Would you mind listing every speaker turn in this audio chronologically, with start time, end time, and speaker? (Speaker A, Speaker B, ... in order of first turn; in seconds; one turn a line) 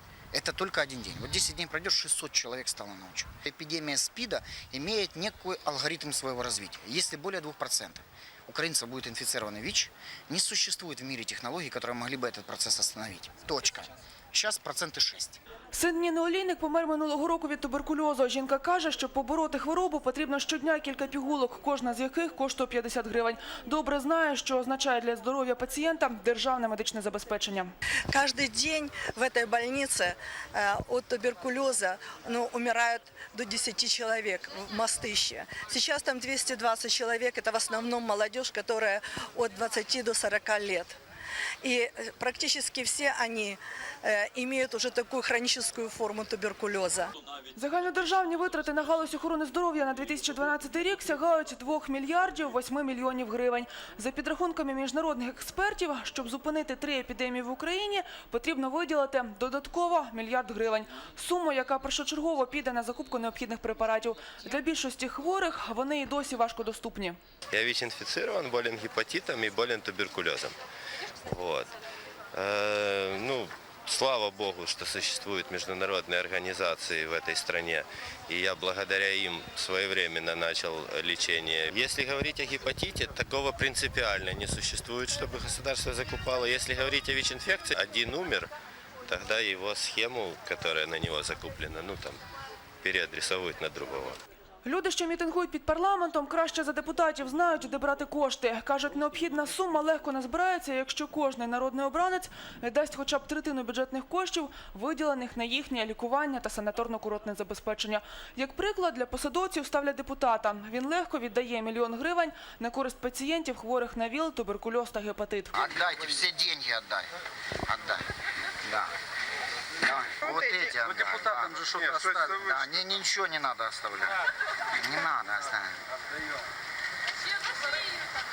Speaker A: 0.3-15.4
Speaker B: 15.7-27.7
Speaker C: 28.1-41.0
Speaker C: 41.6-47.1
Speaker B: 47.5-67.2
Speaker D: 67.5-70.5
Speaker D: 71.2-71.7
Speaker D: 72.3-88.5
Speaker D: 89.0-92.2
Speaker D: 92.8-94.2
Speaker B: 94.6-115.7
Speaker A: 115.5-117.1
Speaker A: 117.7-118.0
Speaker A: 118.6-118.9
Speaker A: 119.8-124.2
Speaker A: 124.7-125.8